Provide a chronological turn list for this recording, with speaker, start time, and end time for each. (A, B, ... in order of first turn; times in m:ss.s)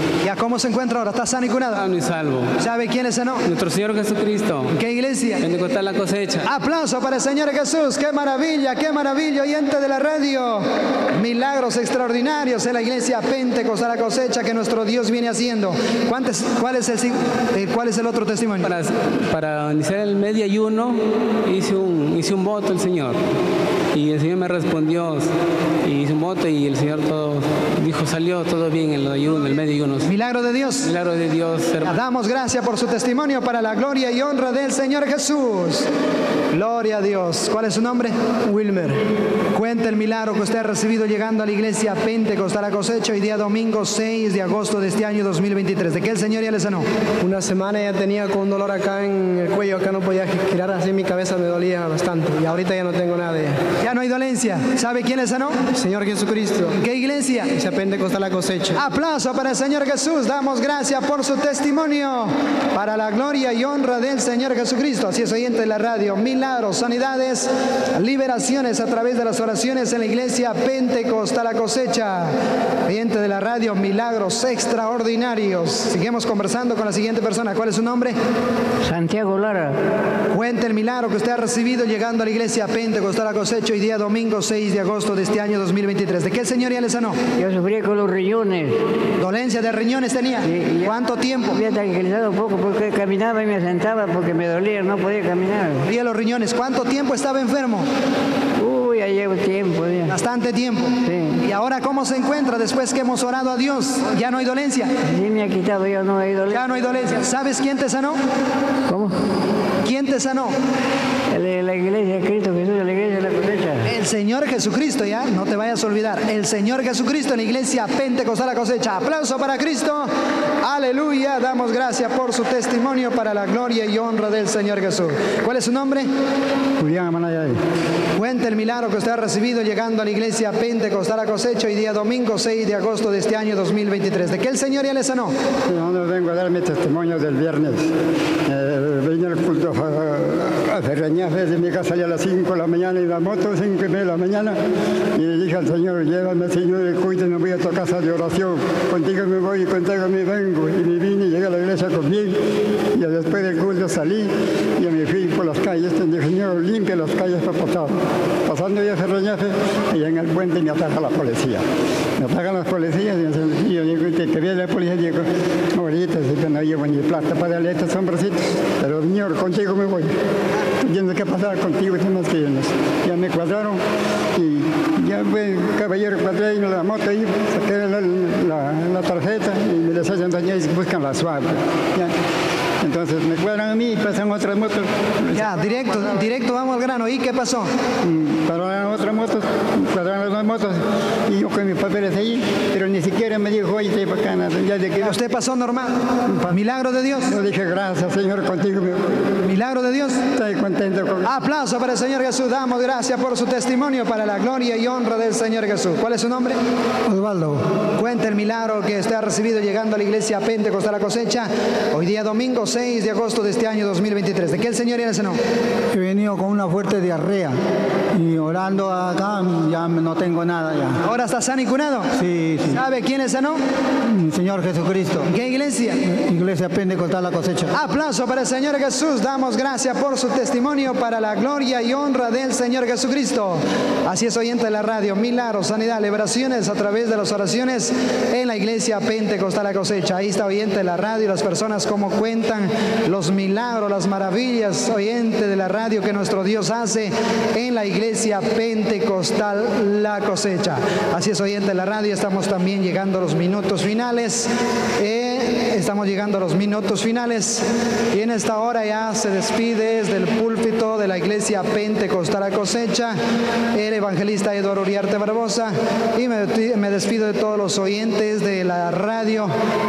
0:00.2-0:01.8 A
0:01.7-0:02.5 B
0:02.6-0:03.4 A
0:03.4-0:04.7 B
0:04.7-0:05.4 A
0:05.4-0:06.5 B
0:06.4-0:18.7 A
0:18.6-0:23.2 B
0:23.9-0:25.3 B
0:25.8-0:30.1 B
0:30.0-0:30.9 A
0:30.8-0:31.9 B
0:31.8-0:35.9 A
0:36.5-0:38.1 A
0:38.5-0:39.0 C
0:39.5-0:46.8 A
0:47.2-0:53.6 C
0:53.8-0:55.6 A
0:55.7-0:56.8 C
0:56.7-0:57.5 A
0:57.5-0:58.8 C
0:58.7-1:12.3 A
1:12.8-1:18.2 A
1:18.8-1:19.7 D
1:20.3-1:27.2 A
1:27.4-1:28.7 D
1:29.2-1:31.6 A
1:30.5-1:30.9 D
1:31.5-1:35.8 D
1:35.8-1:37.8 A
1:38.6-1:40.1 D
1:40.1-1:44.9 A
1:45.0-1:46.6 D
1:46.5-1:48.2 A
1:48.9-1:49.1 D
1:49.8-1:50.5 A
1:51.3-1:53.8 D
1:53.8-2:00.1 A
2:00.6-2:06.1 A
2:06.8-2:07.6 E
2:08.2-2:15.3 A
2:15.7-2:17.9 E
2:18.5-2:24.6 E
2:25.1-2:32.4 E
2:32.9-2:41.6 E
2:42.2-2:50.1 E
2:50.8-2:53.8 E
2:54.3-3:02.1 E
3:02.8-3:05.5 E
3:05.3-3:07.7 A
3:08.0-3:15.2 E
3:15.0-3:15.9 A
3:16.5-3:17.4 A
3:17.3-3:19.3 E
3:19.4-3:20.2 A
3:20.2-3:21.3 E
3:21.2-3:26.6 A
3:27.1-3:27.6 F
3:28.0-3:35.4 A
3:36.0-3:37.5 F
3:38.2-3:40.9 F
3:41.0-3:42.1 A
3:42.6-3:43.6 A
3:44.2-3:45.1 F
3:45.2-3:46.0 A
3:46.3-3:47.6 F
3:47.7-4:23.2 A
4:23.7-4:29.5 A